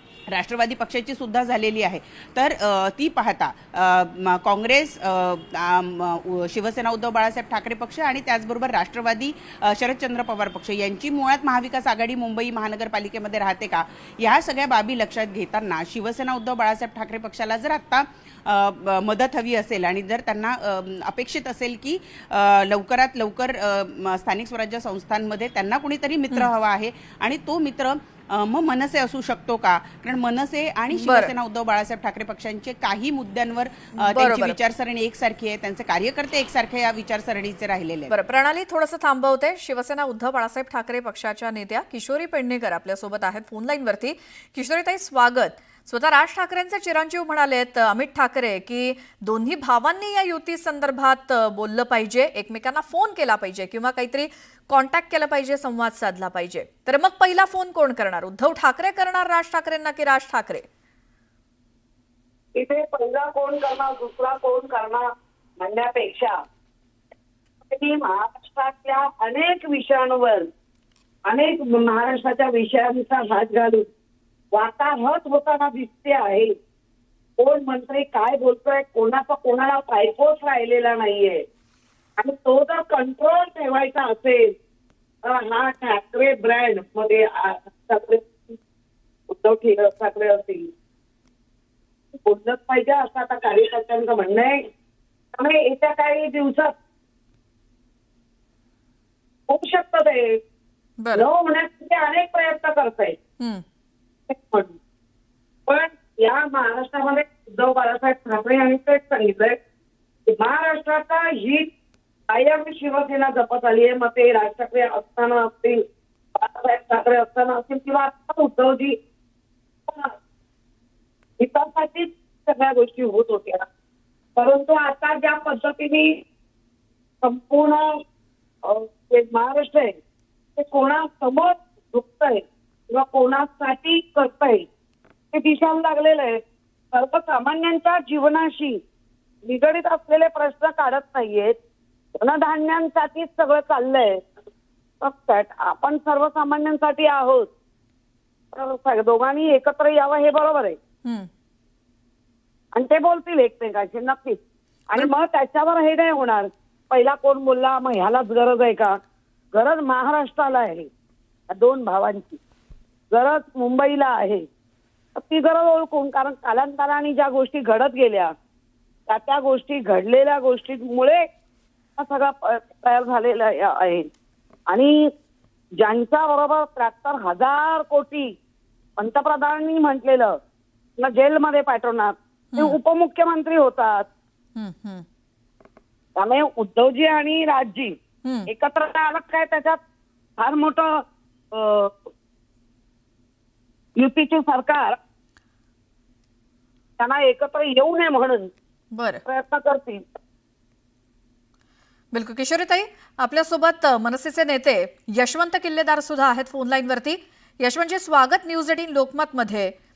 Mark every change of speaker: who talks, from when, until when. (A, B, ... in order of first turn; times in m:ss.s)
0:00.3-0:38.1 A
0:30.9-0:31.3 B
0:34.0-0:34.6 B
0:38.1-1:00.6 B
1:02.5-1:06.3 C
1:07.7-1:10.5 C
1:11.2-1:13.9 C
1:14.5-1:16.5 C
1:17.4-1:21.4 C
1:22.2-1:24.5 C
1:25.2-1:28.6 C
1:29.3-1:30.7 C
1:32.1-1:34.6 C
1:35.3-1:36.7 C
1:39.5-1:40.4 C
1:41.0-1:41.3 B
1:41.1-1:43.2 C
1:44.3-1:44.8 C
1:45.7-1:49.6 C
1:50.3-1:51.7 C
1:52.3-1:55.8 C
1:56.3-1:59.0 C
1:59.9-2:00.1 C
2:01.4-2:03.7 C
2:04.4-2:06.2 C
2:07.2-2:07.8 C
2:08.6-2:10.0 C
2:10.6-2:14.7 C
2:15.3-2:18.8 C
2:19.4-2:21.6 C
2:22.2-2:24.2 C
2:25.0-2:27.5 C
2:28.5-2:30.8 C
2:32.7-2:34.4 C
2:34.9-2:39.0 C
2:39.5-2:40.9 C
2:41.5-2:42.4 C
2:43.1-2:44.4 C
2:45.1-2:48.3 C
2:49.1-2:51.3 C
2:52.0-2:54.1 C
2:54.7-2:55.1 C
2:55.8-2:58.3 C
2:59.0-3:00.4 C
3:01.0-3:04.1 C
3:04.6-3:05.0 B
3:06.2-3:08.0 C
3:08.5-3:09.8 C
3:10.4-3:11.0 C
3:11.5-3:12.1 C
3:14.0-3:15.0 C
3:17.0-3:18.5 C
3:18.9-3:19.2 B
3:19.2-3:20.0 C
3:22.1-3:29.7 B